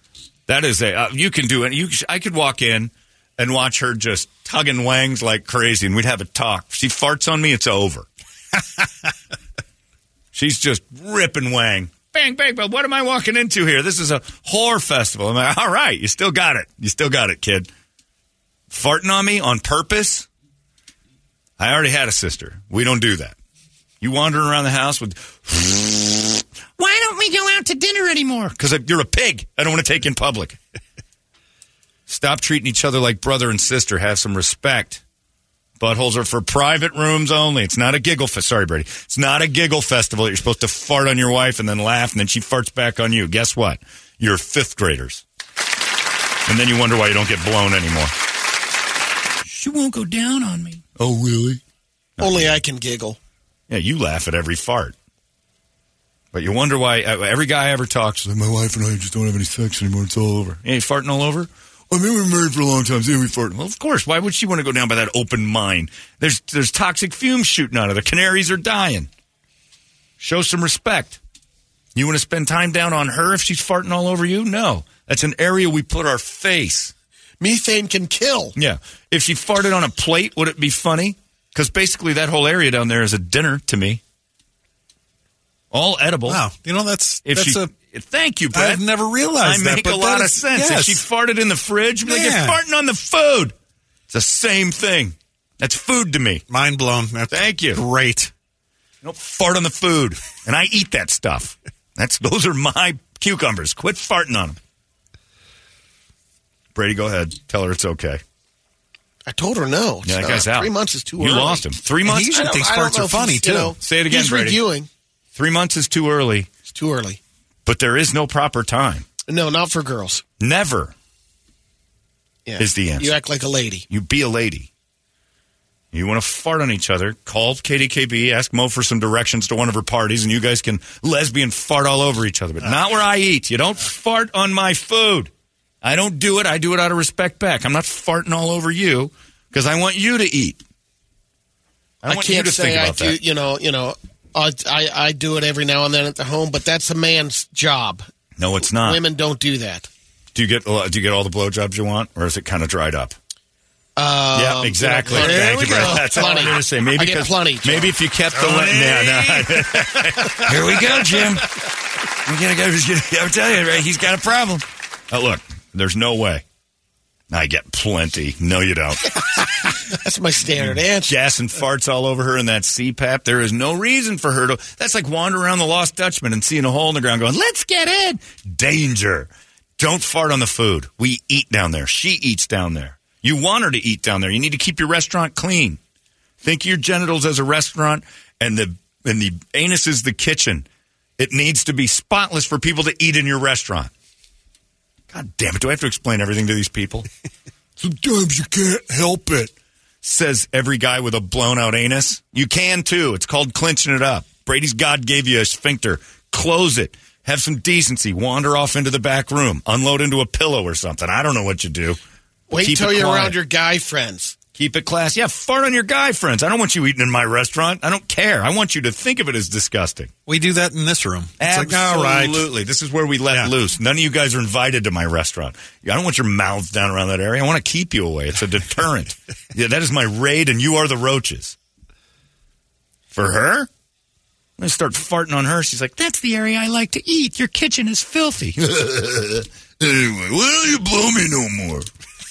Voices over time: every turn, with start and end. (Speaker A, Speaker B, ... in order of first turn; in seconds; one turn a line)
Speaker A: 0.5-8.1
Speaker A: 10.3-17.7
Speaker A: 18.7-20.3
Speaker A: 21.6-23.4
Speaker A: 24.0-30.6
Speaker A: 32.1-35.0
Speaker A: 35.8-45.2
Speaker A: 46.5-48.1
Speaker A: 49.4-51.6
Speaker A: 52.2-52.6
Speaker B: 52.2-53.2
Speaker A: 53.7-54.9
Speaker A: 56.3-69.1
Speaker A: 70.2-71.2
Speaker A: 71.9-76.9
Speaker B: 77.4-78.5
Speaker A: 78.5-84.0
Speaker A: 85.7-86.4
Speaker C: 86.3-87.7
Speaker A: 87.2-88.8
Speaker C: 88.5-91.0
Speaker A: 89.4-93.5
Speaker C: 92.0-92.6
Speaker A: 94.1-96.4
Speaker C: 96.5-98.3
Speaker A: 97.3-97.8
Speaker A: 99.0-104.6
Speaker A: 106.7-108.2
Speaker B: 109.3-111.7
Speaker A: 110.0-112.3
Speaker C: 112.0-113.8
Speaker B: 112.3-114.9
Speaker A: 113.8-114.6
Speaker A: 115.3-116.5
Speaker B: 116.7-117.2
Speaker A: 117.7-119.1
Speaker B: 119.3-120.2
Speaker A: 120.4-120.9
Speaker B: 122.5-123.8
Speaker A: 122.6-123.1
Speaker A: 123.9-124.7
Speaker A: 125.9-135.3
Speaker A: 135.8-140.6
Speaker A: 142.0-143.2
Speaker B: 142.1-148.0
Speaker A: 148.4-149.0
Speaker B: 148.8-149.9
Speaker A: 150.3-153.1
Speaker B: 154.0-157.9
Speaker A: 154.3-161.5
Speaker C: 155.1-156.3
Speaker C: 158.4-160.9
Speaker A: 162.2-166.4
Speaker A: 167.3-169.8
Speaker B: 169.9-171.1
Speaker A: 170.6-185.8
Speaker A: 186.4-190.7
Speaker A: 191.2-193.9
Speaker A: 195.1-197.1
Speaker A: 197.8-212.0
Speaker B: 212.5-214.4
Speaker A: 212.6-213.4
Speaker A: 214.5-220.1
Speaker C: 220.3-222.4
Speaker A: 221.4-231.6
Speaker A: 233.1-233.7
Speaker A: 234.6-241.9